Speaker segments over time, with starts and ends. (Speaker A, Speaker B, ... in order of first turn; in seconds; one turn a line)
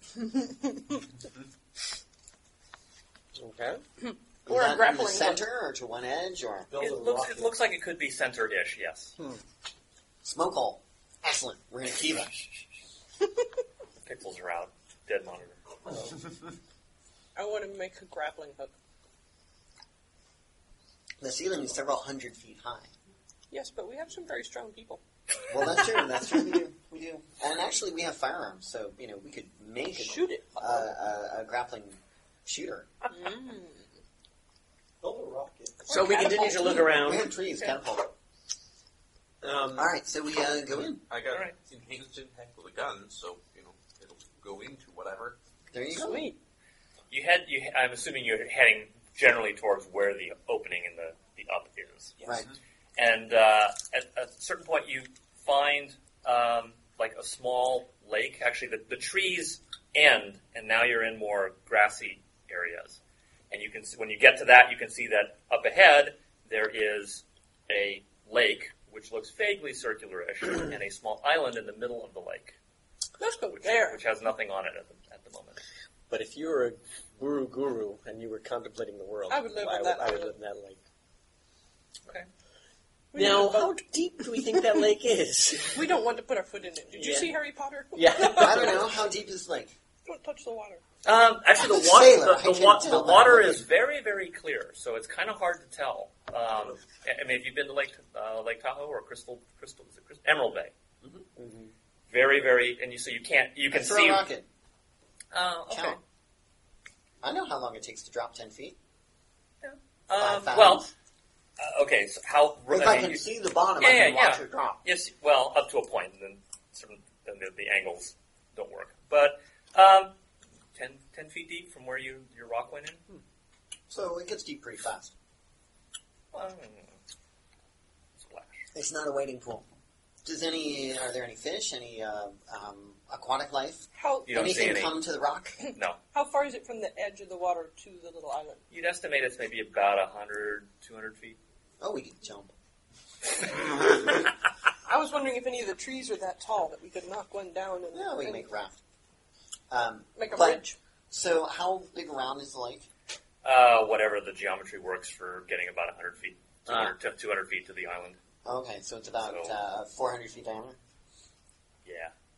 Speaker A: 3.4-3.8
Speaker B: 4.0-5.4
Speaker C: 4.5-6.7
Speaker D: 6.7-7.6
Speaker E: 6.8-9.1
Speaker C: 10.2-12.6
Speaker E: 14.0-15.6
Speaker D: 15.9-16.2
Speaker B: 17.3-18.7
Speaker C: 21.2-22.9
Speaker B: 23.5-25.0
Speaker C: 25.5-32.9
Speaker B: 29.9-30.9
Speaker B: 33.0-33.9
Speaker D: 35.0-35.9
Speaker B: 35.9-37.8
Speaker A: 35.9-37.3
Speaker C: 36.8-38.1
Speaker A: 39.4-39.9
Speaker C: 39.8-41.0
Speaker F: 41.1-45.4
Speaker E: 41.3-41.5
Speaker C: 45.7-46.3
Speaker B: 45.9-46.4
Speaker E: 47.1-52.1
Speaker E: 53.0-63.0
Speaker E: 63.5-72.5
Speaker B: 73.2-74.0
Speaker E: 73.5-75.6
Speaker A: 76.1-80.8
Speaker B: 79.3-80.3
Speaker B: 83.1-83.8
Speaker A: 83.1-85.9
Speaker B: 84.3-84.9
Speaker B: 85.7-88.9
Speaker A: 86.9-87.3
Speaker A: 87.9-88.8
Speaker C: 88.3-89.7
Speaker B: 90.0-90.8
Speaker E: 91.0-100.7
Speaker C: 91.6-93.7
Speaker A: 101.3-101.7
Speaker E: 102.1-104.3
Speaker C: 103.7-104.5
Speaker E: 105.3-106.0
Speaker C: 105.7-106.0
Speaker C: 107.2-108.8
Speaker E: 109.6-110.9
Speaker C: 110.2-110.9
Speaker E: 111.6-113.2
Speaker C: 112.7-114.8
Speaker E: 113.8-120.1
Speaker E: 120.7-123.0
Speaker C: 123.9-125.1
Speaker E: 126.3-127.0
Speaker E: 128.2-128.7
Speaker C: 128.7-129.7
Speaker C: 130.2-135.6
Speaker B: 133.9-134.8
Speaker E: 134.2-135.0
Speaker B: 136.1-138.6
Speaker E: 138.7-141.4
Speaker C: 141.8-142.5
Speaker B: 144.8-148.5
Speaker C: 147.9-148.8
Speaker C: 149.7-152.8
Speaker B: 150.2-150.8
Speaker E: 153.4-158.2
Speaker A: 156.7-156.9
Speaker C: 158.4-160.8
Speaker E: 159.2-159.5
Speaker E: 161.8-162.1